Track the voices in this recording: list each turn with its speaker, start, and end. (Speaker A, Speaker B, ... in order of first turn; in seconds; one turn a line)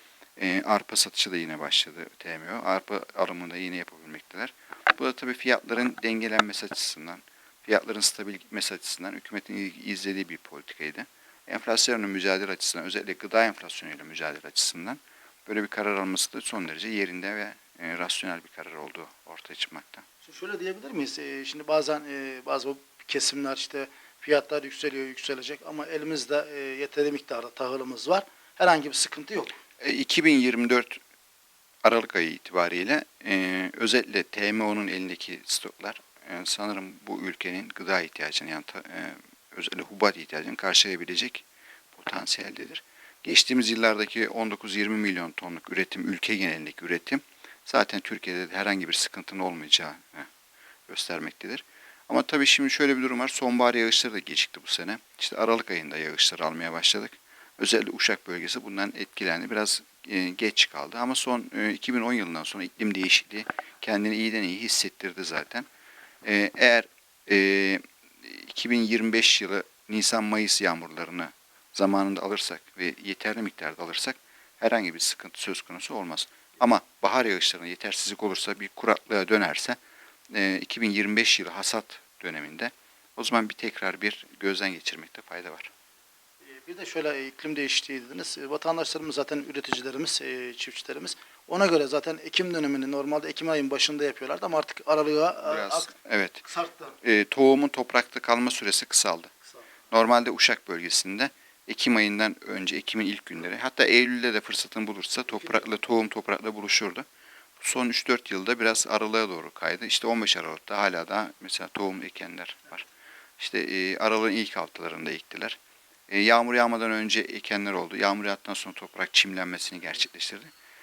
Speaker A: 0.4-20.0
Speaker B: 20.2-29.5
Speaker A: 29.8-31.0
Speaker A: 31.8-50.3
Speaker A: 50.9-65.7
Speaker A: 66.2-79.8
Speaker A: 80.3-85.7
Speaker B: 86.6-95.9
Speaker A: 95.5-96.4
Speaker B: 96.5-96.9
Speaker A: 97.0-99.3
Speaker A: 99.9-107.0
Speaker A: 107.6-112.8
Speaker A: 113.4-120.5